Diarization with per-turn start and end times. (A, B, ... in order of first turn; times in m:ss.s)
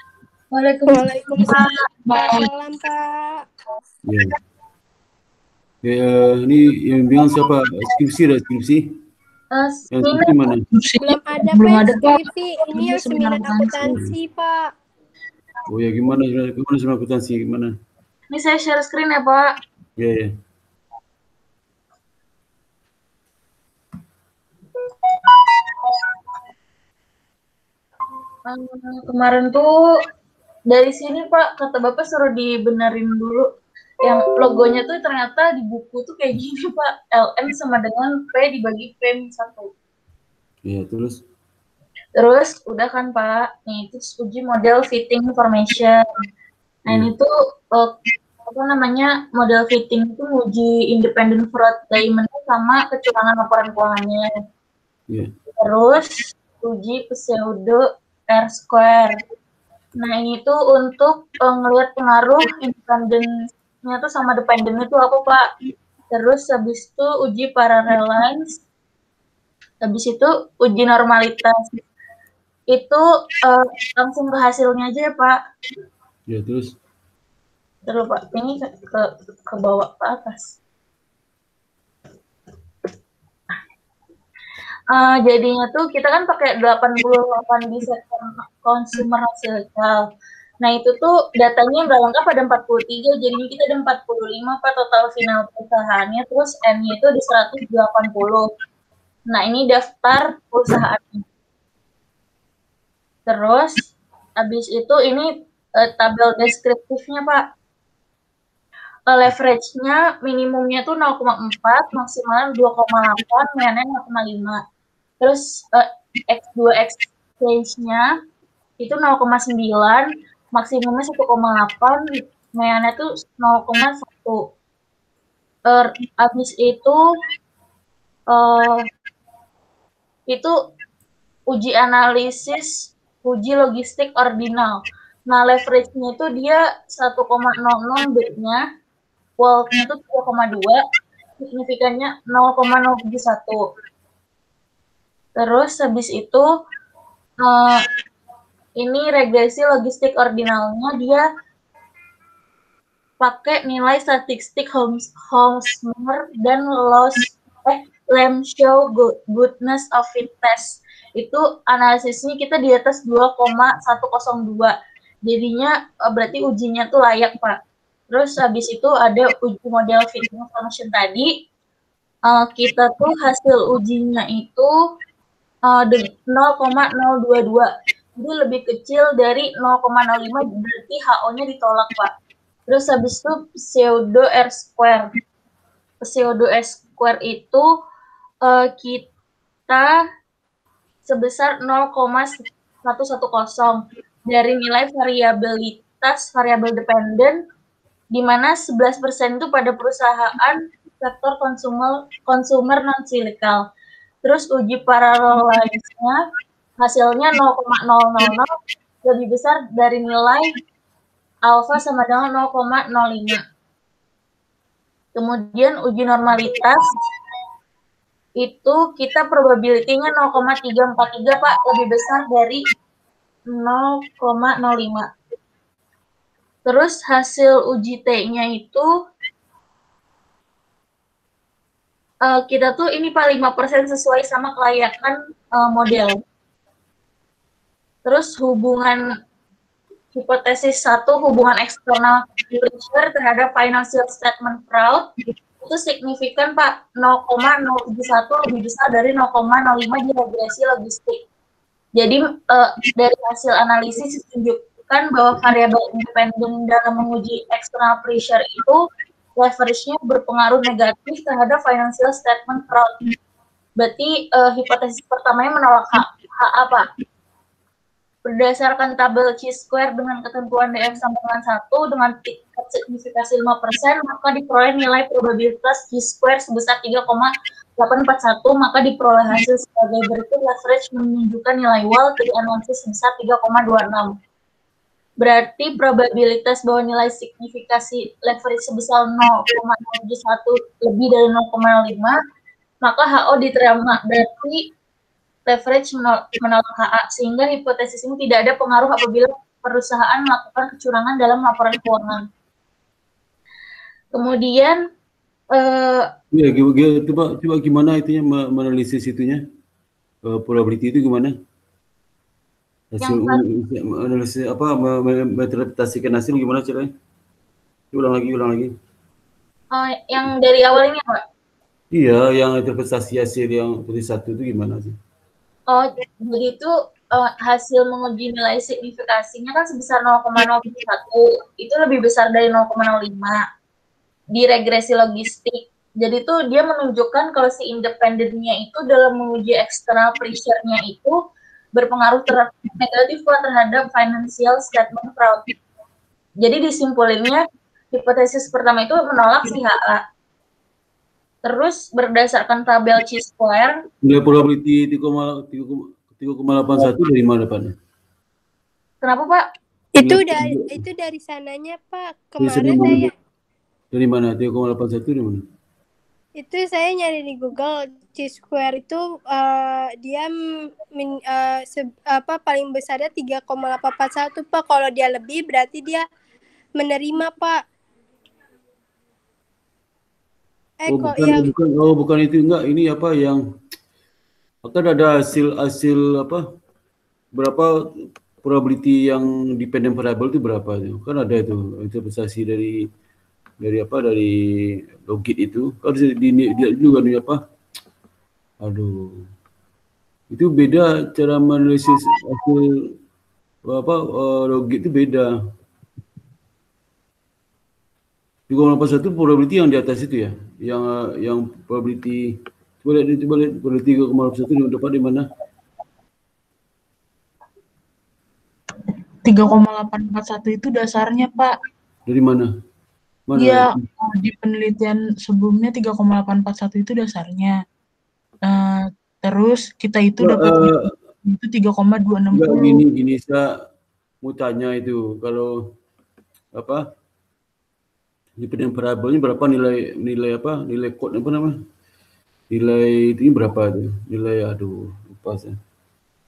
0:00.5-0:01.7 A
0:00.9-0:03.0 B
0:01.4-0:02.4 C
0:04.0-0:04.3 D
0:05.8-0:08.9 D
0:09.5-0:10.2 A
0:09.9-0:10.6 D
0:10.7-0:14.1 C
0:11.0-0:14.5 B
0:15.7-0:17.7 D
0:18.3-0:19.5 A
0:20.0-0:20.3 D
0:28.4-0:29.7 A
0:30.7-0:33.5 A
0:34.0-0:39.7 A
0:40.6-0:41.2 D
0:42.2-0:46.0 A
0:46.9-0:47.9 A
0:48.4-0:54.3 A
0:55.6-0:59.2 A
1:00.0-1:03.3 A
1:03.8-1:05.5 A
1:06.1-1:08.5 A
1:09.8-1:11.6 A
1:12.7-1:15.4 A
1:16.3-1:16.7 D
1:17.9-1:20.5 A
1:24.9-1:30.0 A
1:30.6-1:38.5 A
1:39.3-1:41.2 A
1:43.3-1:43.8 A
1:44.4-1:47.4 A
1:49.1-1:54.6 A
1:55.2-1:58.1 A
1:58.8-2:02.0 A
2:02.6-2:04.4 A
2:05.7-2:07.0 A
2:08.3-2:08.8 A
2:10.3-2:10.5 A
2:11.5-2:14.8 A
2:15.3-2:18.6 A
2:19.4-2:20.8 A
2:21.4-2:23.6 A
2:25.4-2:26.4 A
2:27.4-2:27.9 A
2:28.8-2:31.2 A
2:33.2-2:44.7 A
2:45.2-2:47.6 A
2:48.1-2:51.3 A
2:52.3-2:54.7 A
2:55.7-3:02.1 A
3:02.7-3:05.1 A
3:06.0-3:07.6 A
3:08.4-3:09.1 A
3:09.7-3:10.0 A
3:11.1-3:17.4 A
3:18.1-3:23.6 A
3:24.2-3:26.2 A
3:26.8-3:28.5 A
3:29.0-3:30.5 A
3:31.5-3:33.4 A
3:35.2-3:36.8 A
3:38.4-3:42.6 A
3:43.5-3:45.1 A
3:46.6-3:48.9 A
3:52.2-3:56.2 A
3:58.0-3:59.0 A
4:00.1-4:05.0 A
4:05.6-4:11.2 A
4:12.0-4:18.8 A
4:19.4-4:23.0 A
4:23.8-4:26.9 A
4:28.2-4:44.1 A
4:45.2-4:52.2 A
4:52.8-4:54.6 A
4:55.4-5:02.2 A
5:04.1-5:04.8 A
5:05.5-5:06.1 A
5:06.3-5:09.4 D
5:10.3-5:11.3 D
5:12.9-5:16.9 D
5:13.0-5:13.4 A
5:17.9-5:18.7 D
5:19.7-5:21.2 A
5:21.9-5:24.9 D
5:25.7-5:33.4 A
5:34.3-5:41.2 A
5:41.7-5:45.5 A
5:46.4-5:50.0 A
5:51.4-5:53.8 A
5:54.0-5:57.7 D
5:59.0-5:59.4 A
5:59.9-6:03.1 B
6:00.0-6:00.8 D
6:02.4-6:03.1 D
6:03.9-6:05.4 D
6:06.4-6:10.3 B
6:11.0-6:16.0 B
6:16.8-6:17.5 B
6:20.8-6:21.4 B
6:20.9-6:23.4 D
6:24.7-6:26.4 D
6:27.4-6:27.7 D
6:28.4-6:32.8 D
6:33.6-6:37.4 D
6:38.6-6:39.2 D
6:40.3-6:42.6 D
6:43.7-6:45.3 D
6:48.5-6:52.2 D
6:52.8-6:55.2 D
6:59.2-7:01.5 C
7:02.1-7:02.5 D
7:03.3-7:03.8 D
7:03.3-7:07.6 C
7:08.4-7:12.8 C
7:10.2-7:10.9 D
7:12.3-7:13.4 D
7:14.2-7:15.5 D
7:16.6-7:16.8 D
7:18.4-7:21.5 D
7:22.5-7:25.6 D